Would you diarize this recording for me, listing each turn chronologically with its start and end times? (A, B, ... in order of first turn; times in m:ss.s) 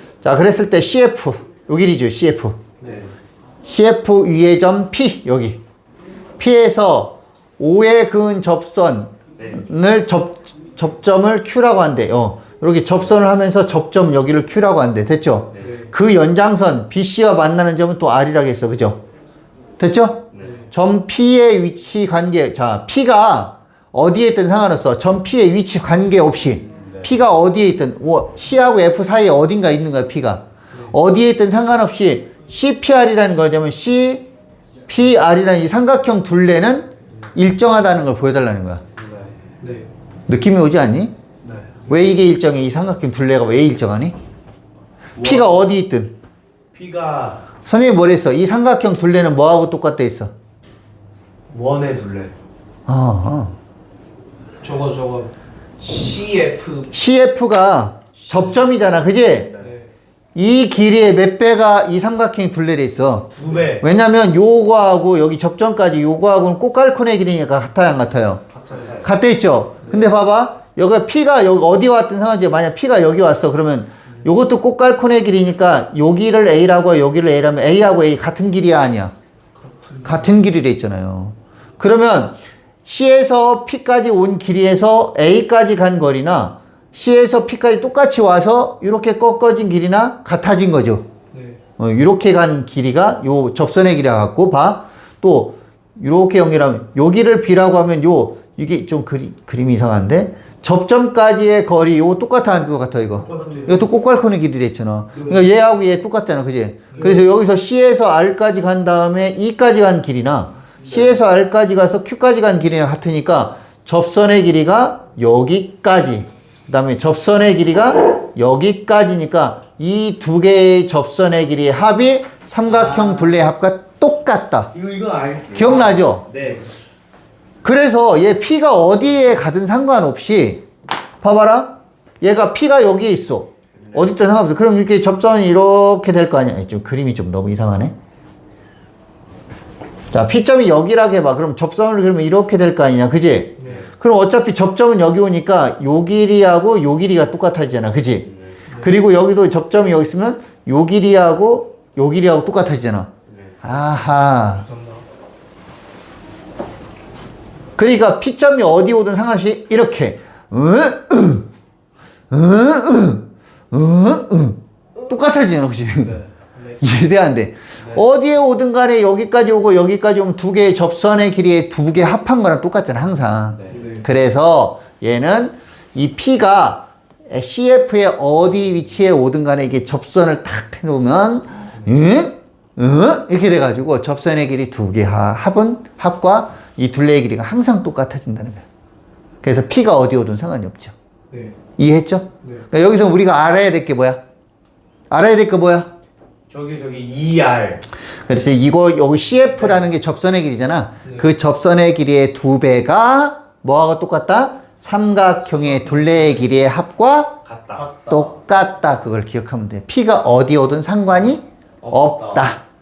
0:00.2-0:02.6 A
0:03.6-0:05.6 A
0:06.4-0:19.0 A
0:15.6-0:15.9 B
0:19.8-0:34.2 A
0:34.9-0:38.8 A
0:39.0-0:39.3 C
0:39.6-0:39.9 B
0:40.3-0:41.1 A
0:41.9-0:44.1 A
0:45.2-0:46.1 A
0:45.2-0:45.5 C
0:46.7-0:47.4 C
0:47.6-0:50.3 A
0:51.5-0:52.3 C
0:52.9-0:53.6 A
0:54.6-0:56.9 B
0:56.9-0:59.6 A
0:59.6-0:59.9 B
1:00.3-1:08.4 A
1:03.4-1:03.8 B
1:03.4-1:03.8 C
1:08.6-1:09.0 B
1:09.0-1:19.1 A
1:19.6-1:20.3 B
1:20.0-1:31.0 A
1:31.3-1:31.6 B
1:31.8-2:04.7 A
1:43.2-1:43.8 B
1:45.2-1:45.4 B
1:46.9-1:47.2 B
2:02.7-2:03.4 C
2:04.7-2:06.7 C
2:05.5-2:06.3 A
2:07.6-2:10.6 A
2:11.2-2:17.9 A
2:13.8-2:14.1 C
2:20.1-2:33.1 A
2:23.6-2:23.8 B
2:33.3-2:33.6 C
2:33.6-2:34.7 A
2:34.6-2:35.0 B
2:37.8-2:41.5 A
2:42.3-2:46.2 A
2:46.8-3:08.6 A
2:53.5-2:53.9 C
2:53.7-2:54.0 B
3:01.8-3:02.0 B
3:09.4-3:10.9 A
3:11.3-3:11.6 B
3:11.8-3:14.2 A
3:15.1-3:15.9 A
3:16.5-3:17.8 C
3:18.2-3:27.4 A
3:27.4-3:28.3 C
3:28.0-3:32.6 A
3:31.8-3:32.5 C